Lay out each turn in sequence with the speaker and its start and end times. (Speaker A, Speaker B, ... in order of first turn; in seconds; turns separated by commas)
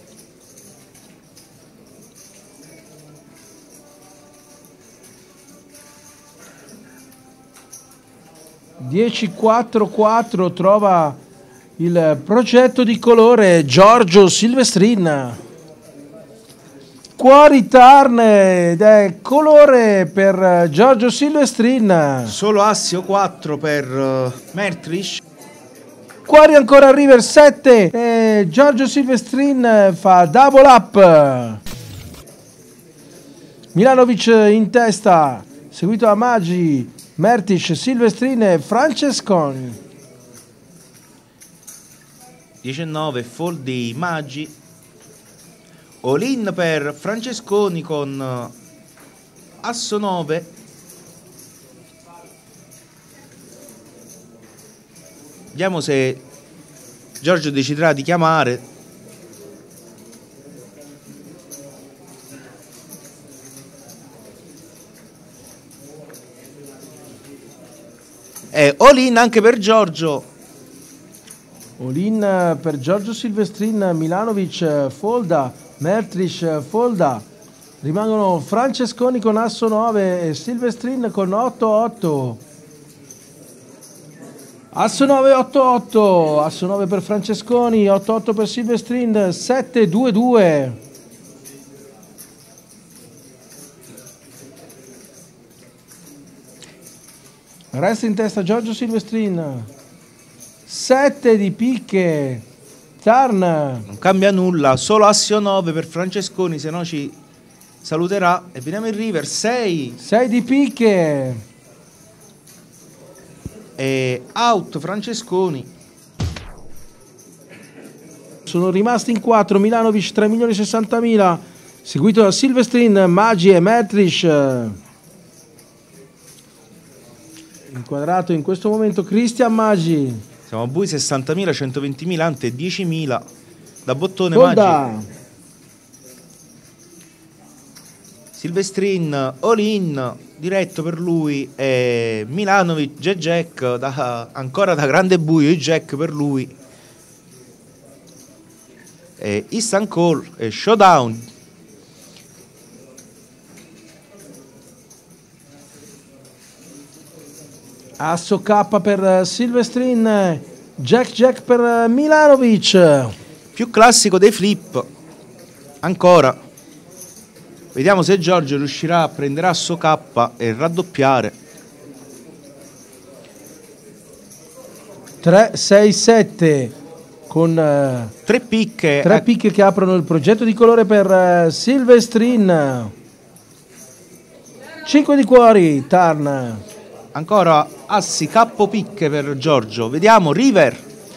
Speaker A: 8.8-11.2, Speaker A: 11.8-15.4, Speaker A: 17.2-22.3, Speaker B: 22.3-25.2, Speaker A: 26.2-31.6, Speaker A: 33.7-39.8, Speaker B: 42.6-44.5, Speaker B: 46.0-48.5, Speaker B: 49.6-50.5, Speaker B: 55.5-56.2, Speaker B: 57.2-58.6, Speaker B: 68.5-70.2, Speaker A: 71.8-77.2, Speaker A: 77.8-82.4, Speaker A: 84.7-90.8, Speaker A: 97.7-99.7, Speaker A: 100.7-102.4, Speaker A: 103.0-103.8, Speaker B: 103.9-107.2, Speaker B: 107.8-110.0, Speaker A: 110.0-111.4, Speaker B: 113.8-115.7, Speaker A: 118.5-124.8, Speaker A: 127.7-130.2, Speaker B: 130.5-133.2, Speaker B: 133.8-134.8, Speaker A: 134.3-135.1, Speaker B: 138.3-146.5, Speaker B: 149.2-151.2, Speaker A: 158.0-163.1, Speaker B: 163.5-164.9, Speaker B: 165.8-166.4, Speaker B: 167.7-171.3, Speaker A: 175.2-176.7, Speaker A: 177.3-178.1, Speaker B: 178.2-179.3, Speaker A: 179.0-182.9, Speaker A: 184.8-186.6, Speaker B: 187.1-190.8